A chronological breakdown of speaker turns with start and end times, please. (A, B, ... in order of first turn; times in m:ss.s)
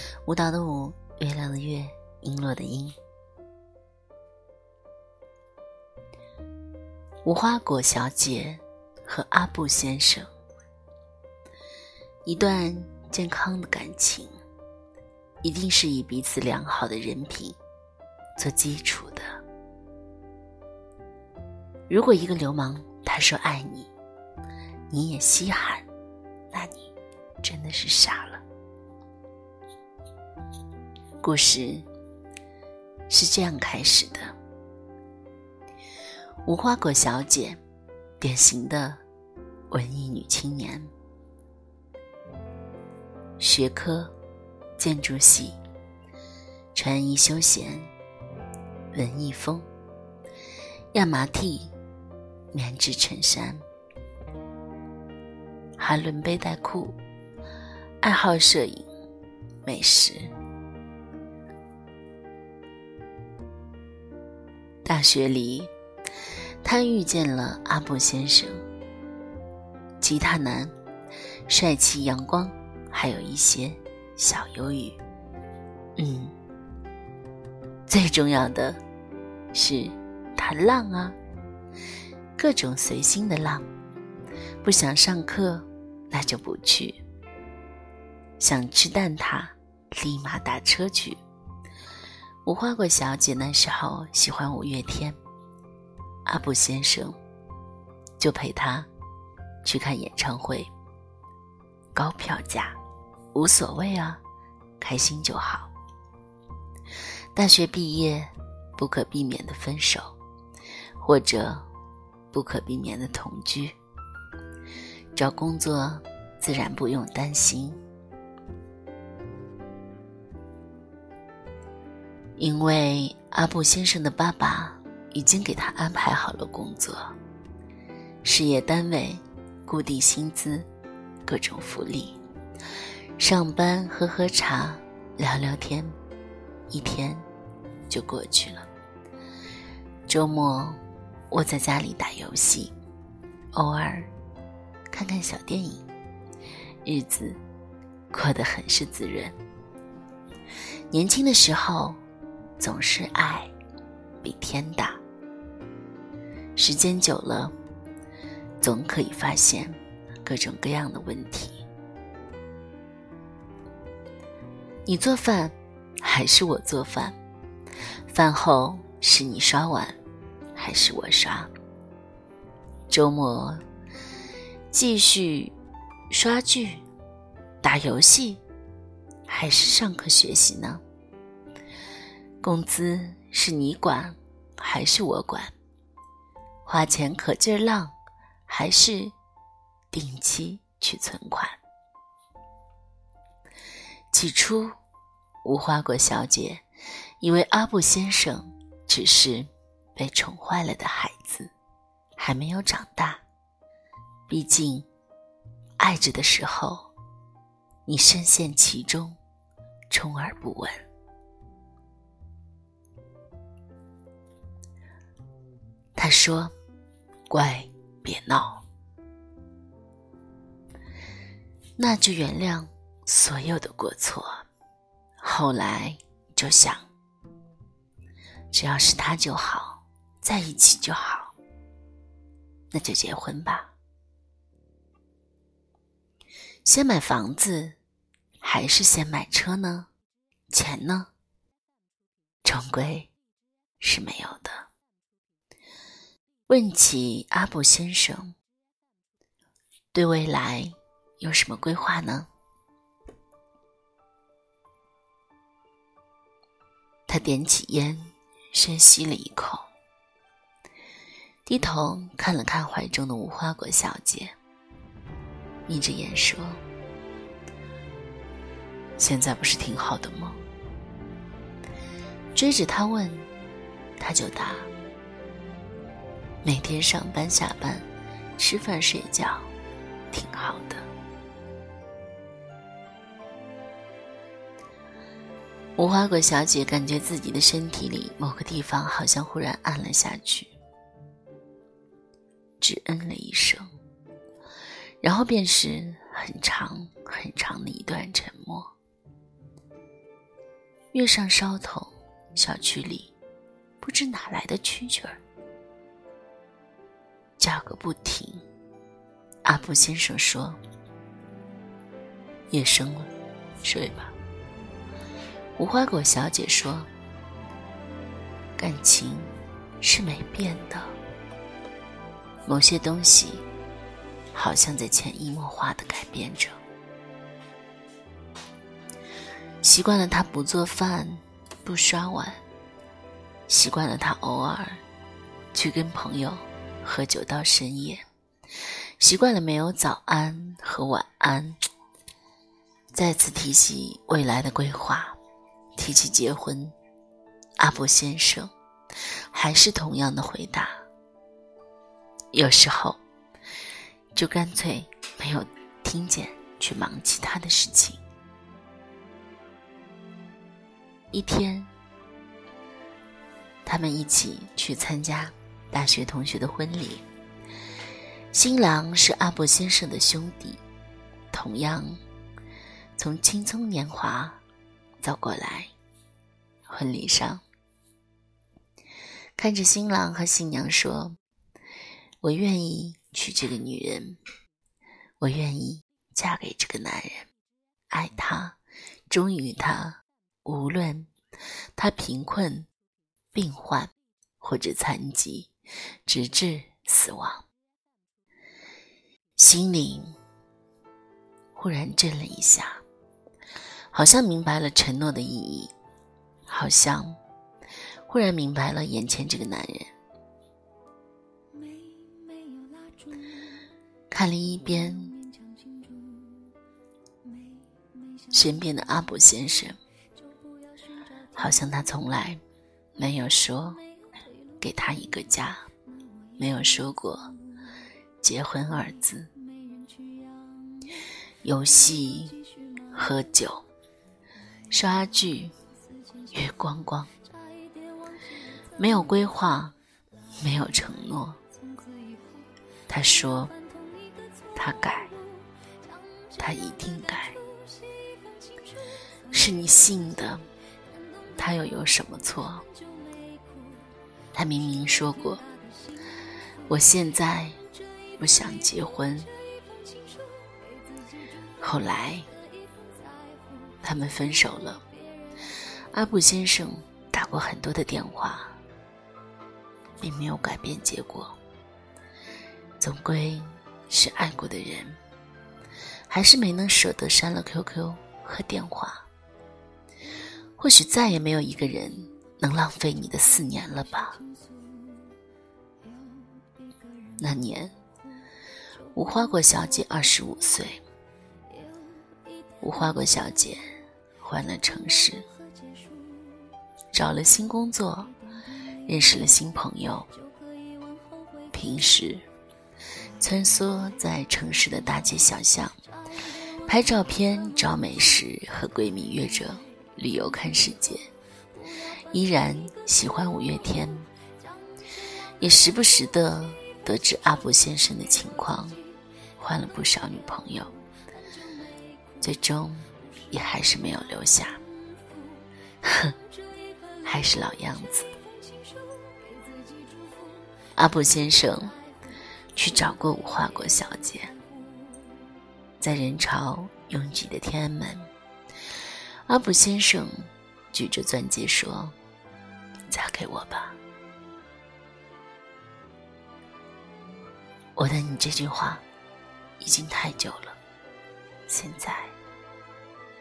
0:00.2-0:03.0 A
0:07.2-0:10.3 A
0:12.2-0:14.3 A
0:15.4-0:17.6 A
0:18.4-0:19.4 A
0:21.9-0:23.9 A
0:24.9-0:25.9 A
0:26.5-0:28.4 A
0:31.2-0:31.9 A
0:33.1-0:34.3 A
0:36.4-0:37.6 A
0:38.2-0:39.0 A
0:39.7-0:40.9 A
0:43.4-0:44.1 A
0:44.8-0:45.6 A
0:46.7-0:47.9 A
0:48.9-0:49.7 A
0:50.9-0:51.7 A
0:52.5-0:53.6 A
0:55.8-0:57.0 A
0:58.0-0:58.9 A
0:59.6-1:00.3 A
1:04.8-1:05.7 A
1:06.6-1:08.6 A
1:10.0-1:10.8 A
1:11.5-1:15.0 A
1:16.0-1:16.4 A
1:17.9-1:18.8 A
1:19.5-1:21.2 A
1:22.4-1:23.7 A
1:24.6-1:27.0 A
1:28.4-1:31.2 A
1:32.4-1:35.2 A
1:36.2-1:37.2 A
1:38.2-1:38.9 A
1:39.6-1:40.7 A
1:41.9-1:42.8 A
1:43.3-1:44.2 A
1:44.8-1:45.7 A
1:47.3-1:50.2 A
1:51.0-1:51.7 A
1:52.3-1:53.8 A
1:55.2-1:57.8 A
2:02.4-2:07.1 A
2:08.2-2:10.7 A
2:11.2-2:12.2 A
2:13.2-2:16.0 A
2:16.7-2:17.3 A
2:17.9-2:18.7 A
2:20.1-2:22.7 A
2:23.5-2:24.1 A
2:24.9-2:25.8 A
2:26.8-2:27.4 A
2:28.1-2:29.4 A
2:30.9-2:32.0 A
2:32.6-2:33.5 A
2:34.2-2:35.0 A
2:36.6-2:37.5 A
2:38.6-2:41.6 A
2:44.9-2:47.2 A
2:48.1-2:50.0 A
2:50.6-2:51.5 A
2:52.9-2:53.6 A
2:54.7-2:55.6 A
2:56.1-2:56.8 A
2:57.6-2:58.4 A
2:59.3-3:00.8 A
3:02.4-3:05.5 A
3:06.6-3:08.0 A
3:08.5-3:09.1 A
3:09.9-3:11.6 A
3:14.1-3:14.8 A
3:15.4-3:16.6 A
3:17.2-3:21.5 A
3:22.2-3:23.2 A
3:24.3-3:24.9 A
3:25.8-3:26.9 A
3:27.9-3:29.2 A
3:29.9-3:30.8 A
3:36.0-3:36.5 A
3:37.3-3:38.6 A
3:41.8-3:44.5 A
3:45.2-3:46.9 A
3:48.5-3:51.4 A
3:52.7-3:53.7 A
3:56.6-3:57.8 A
3:58.4-3:59.9 A
4:00.5-4:01.1 A
4:02.4-4:03.1 A
4:03.8-4:04.7 A
4:06.5-4:08.3 A
4:09.9-4:12.3 A
4:17.1-4:19.7 A
4:21.5-4:24.4 A
4:25.7-4:26.6 A
4:29.0-4:30.4 A
4:32.4-4:33.3 A
4:34.0-4:34.7 A
4:36.4-4:37.9 A
4:38.4-4:39.5 A
4:40.1-4:40.9 A
4:45.8-4:50.5 A
4:52.6-4:53.7 A
4:55.0-4:58.7 A
5:00.9-5:03.1 A
5:03.8-5:05.2 A
5:07.4-5:08.4 A
5:09.4-5:10.6 A
5:12.5-5:13.1 A
5:13.6-5:14.2 A
5:15.6-5:16.9 A
5:18.6-5:21.0 A
5:22.5-5:23.4 A
5:24.3-5:26.6 A
5:29.6-5:32.4 A
5:33.5-5:34.8 A
5:35.5-5:38.0 A
5:39.0-5:41.6 A
5:42.9-5:45.2 A
5:45.8-5:46.8 A
5:47.6-5:48.5 A
5:49.3-5:50.8 A
5:52.3-5:53.0 A
5:54.2-5:58.0 A
6:01.1-6:01.7 A
6:03.6-6:07.0 A
6:08.3-6:10.6 A
6:11.3-6:12.0 A
6:13.0-6:14.4 A
6:15.0-6:15.7 A
6:16.7-6:17.4 A
6:19.4-6:21.2 A
6:22.2-6:24.2 A
6:25.2-6:27.3 A
6:27.9-6:28.6 A
6:29.1-6:31.1 A
6:31.8-6:32.7 A
6:33.3-6:35.5 A
6:36.1-6:37.5 A
6:39.4-6:40.1 A
6:41.6-6:42.8 A
6:43.9-6:45.7 A
6:46.5-6:47.2 A
6:48.1-6:49.9 A
6:54.1-6:55.2 A
6:58.3-6:59.8 A
7:01.4-7:02.4 A
7:03.0-7:03.8 A
7:04.6-7:05.7 A
7:06.4-7:07.3 A
7:08.2-7:09.3 A
7:11.4-7:13.7 A
7:14.7-7:15.6 A
7:16.3-7:17.1 A
7:18.8-7:19.8 A
7:20.4-7:21.4 A
7:22.9-7:23.5 A
7:24.6-7:25.1 A
7:26.4-7:27.4 A
7:29.3-7:30.5 A
7:31.4-7:32.7 A
7:34.3-7:35.4 A
7:36.7-7:37.6 A
7:38.2-7:39.3 A
7:41.6-7:42.3 A
7:43.8-7:44.8 A
7:45.9-7:48.6 A
7:50.0-7:51.4 A
7:52.8-7:55.0 A
7:56.1-7:59.1 A
8:00.6-8:04.2 A
8:07.2-8:07.8 A
8:08.9-8:10.8 A
8:12.6-8:15.3 A
8:16.9-8:18.1 A
8:18.9-8:20.1 A
8:21.5-8:22.3 A
8:23.2-8:25.8 A
8:26.6-8:31.1 A
8:32.1-8:34.1 A
8:35.4-8:38.8 A
8:39.4-8:40.8 A
8:42.2-8:44.6 A
8:45.8-8:46.2 A
8:47.0-8:48.1 A
8:50.8-8:51.8 A
8:52.6-8:54.4 A
8:55.8-8:58.1 A
8:59.3-9:02.0 A
9:02.9-9:03.8 A
9:07.8-9:08.8 A
9:09.6-9:10.6 A
9:11.5-9:12.2 A